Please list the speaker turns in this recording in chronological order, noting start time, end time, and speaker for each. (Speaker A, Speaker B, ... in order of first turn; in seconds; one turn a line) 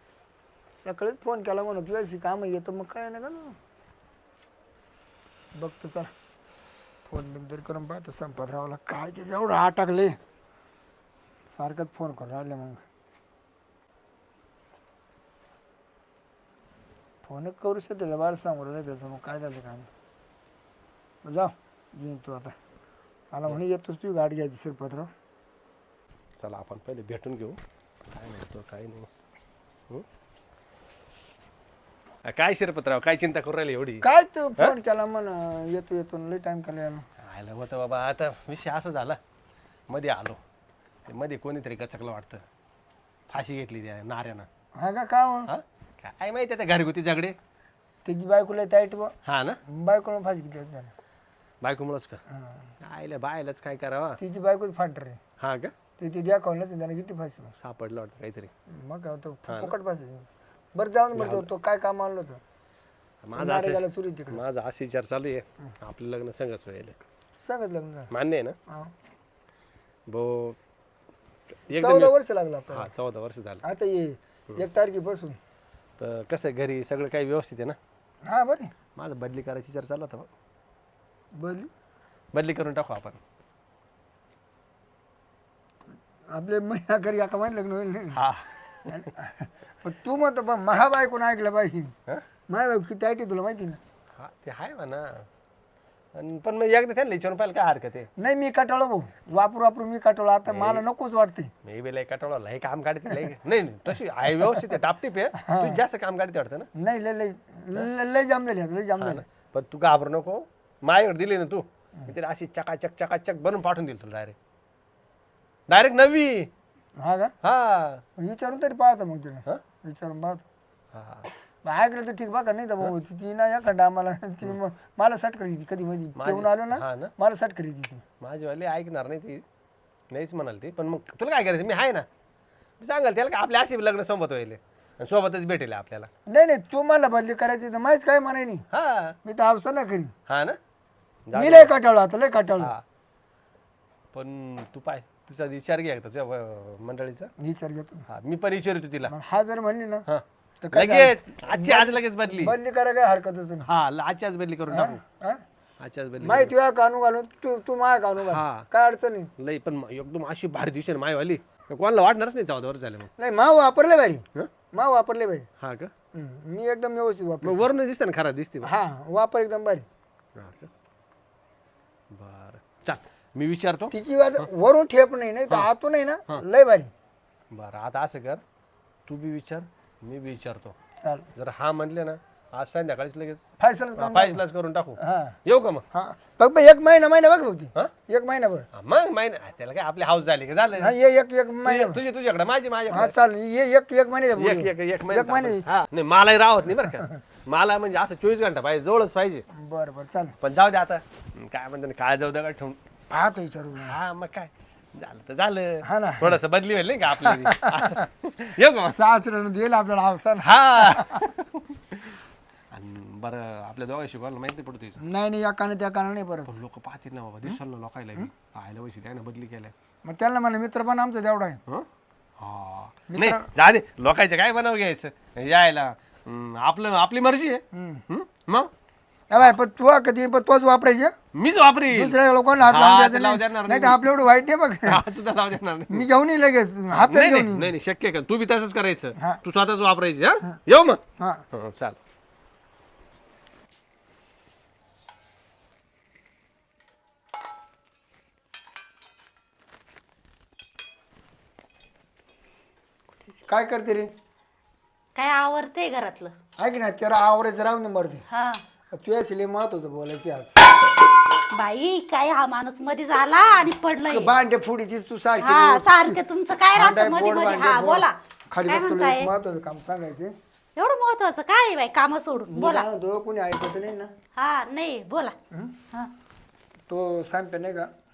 Speaker A: 0.8-3.5
Speaker A: 5.5-6.1
Speaker A: 7.1-10.2
Speaker A: 11.5-12.8
Speaker A: 17.2-19.9
Speaker A: 21.2-22.5
Speaker A: 23.3-25.1
Speaker B: 26.4-29.1
Speaker B: 32.3-34.0
Speaker A: 34.0-37.0
Speaker B: 37.2-39.2
Speaker B: 39.9-40.4
Speaker B: 41.1-42.4
Speaker B: 43.3-44.5
Speaker A: 44.8-45.5
Speaker B: 45.5-47.4
Speaker A: 48.0-49.1
Speaker B: 49.2-49.6
Speaker A: 49.7-50.9
Speaker B: 51.6-52.2
Speaker A: 52.3-52.7
Speaker B: 52.8-54.2
Speaker A: 54.2-55.2
Speaker B: 55.4-55.7
Speaker A: 56.0-57.5
Speaker B: 57.6-58.5
Speaker A: 58.7-62.4
Speaker B: 59.5-59.7
Speaker B: 61.1-61.5
Speaker B: 63.2-67.0
Speaker A: 63.4-64.4
Speaker A: 67.4-68.1
Speaker B: 68.1-68.5
Speaker B: 70.1-70.5
Speaker B: 71.7-72.1
Speaker A: 71.7-72.9
Speaker B: 72.7-73.6
Speaker A: 73.6-75.4
Speaker B: 76.0-77.8
Speaker A: 78.2-78.7
Speaker B: 79.0-80.3
Speaker A: 81.3-81.7
Speaker B: 82.3-83.2
Speaker A: 86.3-88.2
Speaker B: 88.1-89.1
Speaker A: 88.9-91.9
Speaker A: 92.5-93.8
Speaker B: 94.2-95.2
Speaker B: 96.1-98.1
Speaker A: 98.2-101.5
Speaker B: 100.5-100.8
Speaker B: 101.6-106.7
Speaker A: 104.4-104.7
Speaker A: 105.4-105.8
Speaker A: 106.8-109.2
Speaker B: 109.0-114.3
Speaker B: 115.7-116.5
Speaker A: 117.0-117.3
Speaker B: 117.4-118.0
Speaker A: 118.2-120.4
Speaker B: 120.9-121.3
Speaker A: 121.6-128.0
Speaker B: 126.2-127.1
Speaker B: 128.2-129.4
Speaker B: 130.1-132.1
Speaker B: 132.8-136.1
Speaker A: 136.2-138.6
Speaker B: 138.7-139.2
Speaker A: 139.2-140.1
Speaker B: 140.3-140.6
Speaker B: 141.3-141.7
Speaker A: 141.3-142.7
Speaker B: 144.1-147.3
Speaker A: 147.4-148.1
Speaker B: 148.1-149.1
Speaker A: 149.1-150.1
Speaker B: 150.1-152.5
Speaker A: 150.6-153.7
Speaker B: 153.6-155.0
Speaker A: 154.7-155.4
Speaker B: 155.8-156.5
Speaker A: 156.2-159.3
Speaker B: 158.2-158.7
Speaker B: 159.4-163.1
Speaker A: 163.2-165.5
Speaker B: 165.6-165.9
Speaker A: 166.1-167.7
Speaker B: 167.4-168.7
Speaker A: 168.6-169.8
Speaker B: 170.4-170.7
Speaker B: 172.1-174.5
Speaker A: 173.9-176.9
Speaker B: 177.5-178.4
Speaker B: 179.1-180.7
Speaker A: 181.0-181.3
Speaker B: 181.3-183.5
Speaker A: 183.6-184.4
Speaker B: 184.0-185.8
Speaker A: 185.0-185.4
Speaker A: 185.9-188.7
Speaker B: 188.8-190.9
Speaker A: 190.8-192.0
Speaker B: 191.6-193.1
Speaker A: 192.9-195.6
Speaker B: 194.3-199.4
Speaker A: 199.5-200.3
Speaker B: 200.4-202.8
Speaker A: 203.1-204.0
Speaker B: 203.8-208.9
Speaker A: 205.8-206.4
Speaker A: 207.2-207.9
Speaker A: 208.9-211.2
Speaker B: 210.4-212.2
Speaker B: 212.7-215.0
Speaker A: 215.0-216.5
Speaker B: 216.5-219.7
Speaker A: 220.0-221.6
Speaker B: 222.4-228.7
Speaker A: 223.1-223.5
Speaker A: 227.7-228.0
Speaker A: 229.3-231.1
Speaker B: 231.3-234.1
Speaker A: 231.9-235.0
Speaker B: 234.8-236.1
Speaker A: 235.9-237.7
Speaker B: 236.9-241.0
Speaker B: 241.5-241.9
Speaker A: 253.5-254.1
Speaker C: 255.1-256.3
Speaker A: 256.6-258.2
Speaker C: 258.3-258.6
Speaker A: 258.9-260.5
Speaker C: 261.5-264.3
Speaker A: 264.1-266.2
Speaker C: 265.4-268.1
Speaker A: 266.7-270.3
Speaker C: 268.7-269.3
Speaker C: 270.8-272.9
Speaker A: 272.5-274.1
Speaker C: 274.4-275.3
Speaker A: 275.5-275.8
Speaker A: 276.9-277.9